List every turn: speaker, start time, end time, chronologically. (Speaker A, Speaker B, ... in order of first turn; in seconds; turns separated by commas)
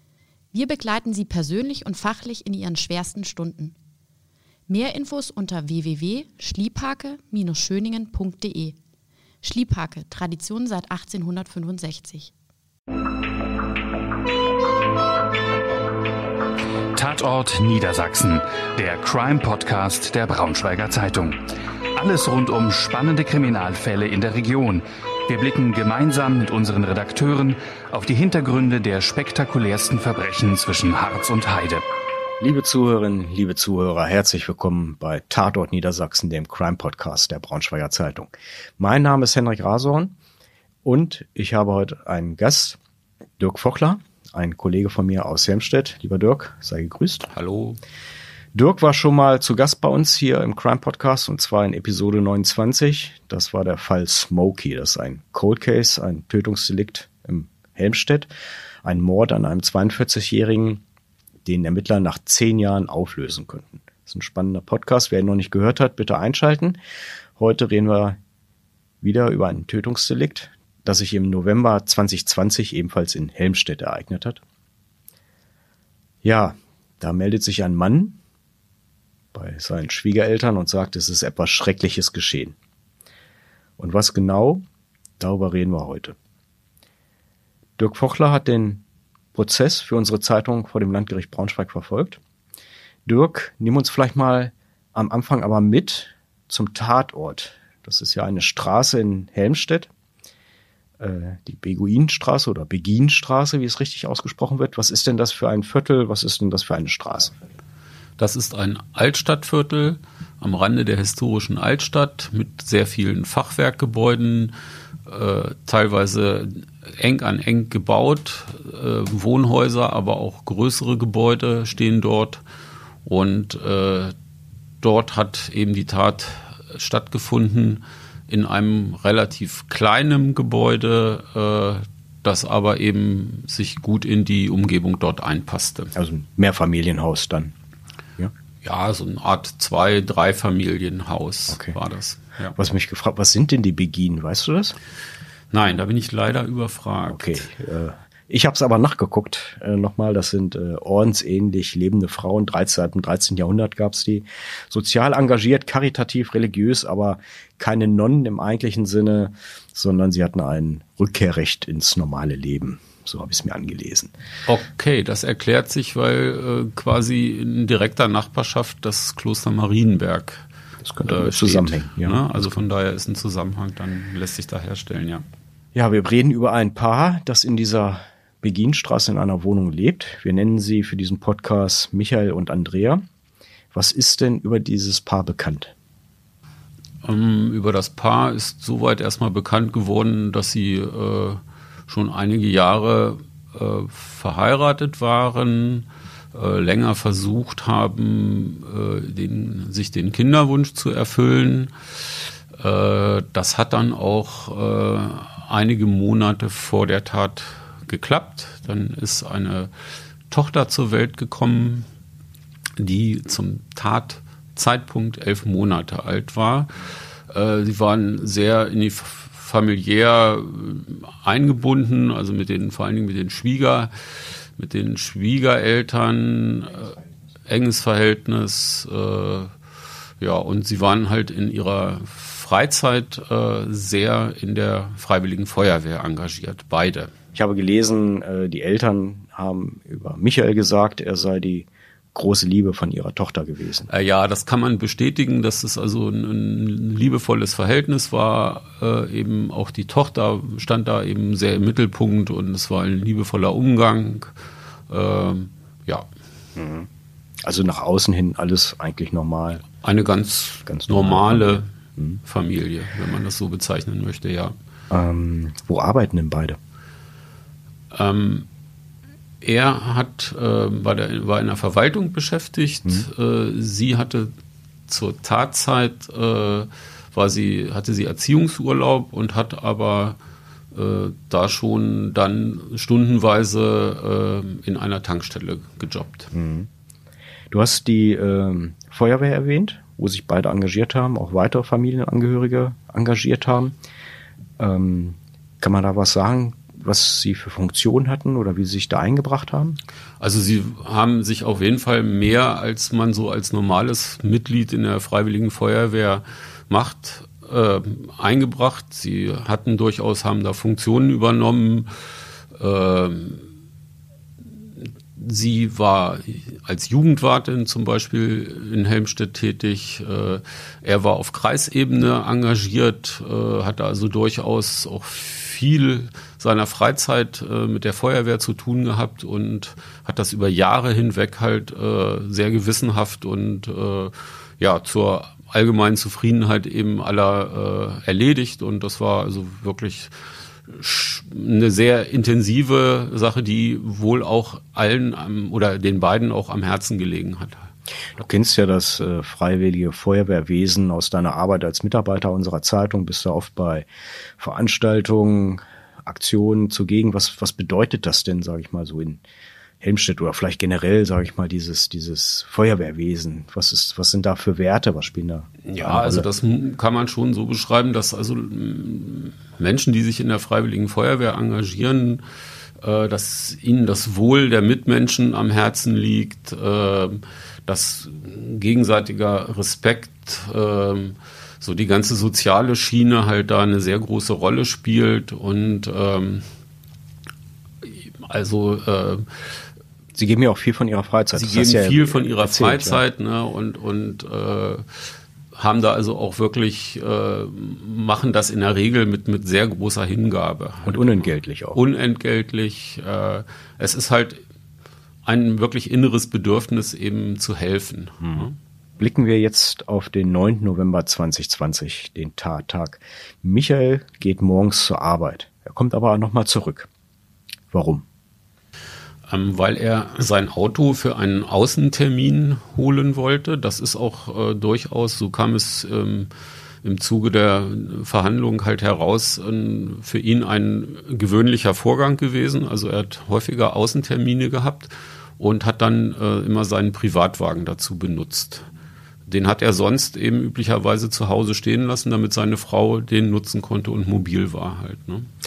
Speaker A: 0.5-3.7, Speaker A: 4.7-8.8, Speaker A: 9.4-12.3, Speaker B: 16.9-21.4, Speaker B: 21.9-31.8, Speaker C: 32.4-40.1, Speaker C: 40.8-42.8, Speaker C: 43.4-47.3, Speaker D: 47.3-47.8, Speaker C: 48.5-58.3, Speaker C: 58.8-60.8, Speaker C: 61.4-66.8, Speaker C: 67.4-68.2, Speaker C: 69.0-74.4, Speaker C: 76.2-78.2, Speaker C: 79.3-82.5, Speaker C: 83.8-84.6, Speaker C: 85.2-86.2, Speaker C: 87.8-88.8, Speaker C: 89.3-92.2, Speaker C: 93.0-99.9, Speaker C: 101.0-107.3, Speaker D: 108.2-114.5, Speaker D: 115.1-122.4, Speaker D: 123.0-124.1, Speaker D: 124.8-135.9, Speaker C: 135.9-137.5, Speaker D: 138.6-142.5, Speaker C: 141.5-141.8, Speaker C: 142.6-144.8, Speaker D: 145.5-147.5, Speaker C: 147.1-164.1, Speaker D: 164.5-170.4, Speaker C: 170.8-172.6, Speaker D: 171.0-175.2, Speaker C: 175.7-183.0, Speaker C: 183.7-185.7, Speaker D: 187.0-201.7, Speaker D: 202.6-209.7, Speaker D: 210.3-211.8, Speaker D: 212.8-223.9, Speaker D: 224.6-226.9, Speaker D: 227.5-229.5, Speaker D: 230.2-237.1, Speaker C: 237.3-243.9, Speaker D: 243.9-254.3, Speaker D: 254.9-256.1, Speaker C: 256.6-256.9, Speaker C: 257.4-259.6, Speaker D: 259.8-261.7, Speaker C: 260.6-262.2, Speaker D: 262.2-264.5, Speaker C: 264.9-266.6, Speaker D: 267.9-268.5, Speaker D: 269.4-274.3, Speaker D: 274.9-280.2, Speaker D: 280.7-286.3, Speaker C: 286.3-286.7, Speaker C: 287.5-293.8, Speaker C: 294.6-299.8, Speaker D: 300.2-311.9, Speaker D: 312.6-313.4, Speaker D: 314.8-340.1, Speaker D: 340.7-347.6, Speaker C: 348.1-353.9, Speaker C: 354.4-359.2, Speaker C: 359.8-366.3, Speaker D: 365.6-372.2, Speaker D: 372.8-386.4, Speaker D: 387.8-389.5, Speaker C: 390.1-393.0, Speaker D: 391.3-404.4, Speaker C: 400.9-401.8, Speaker D: 405.2-408.5, Speaker C: 409.0-416.9, Speaker C: 417.7-418.1, Speaker D: 419.3-426.3, Speaker D: 426.8-438.6, Speaker D: 439.3-445.3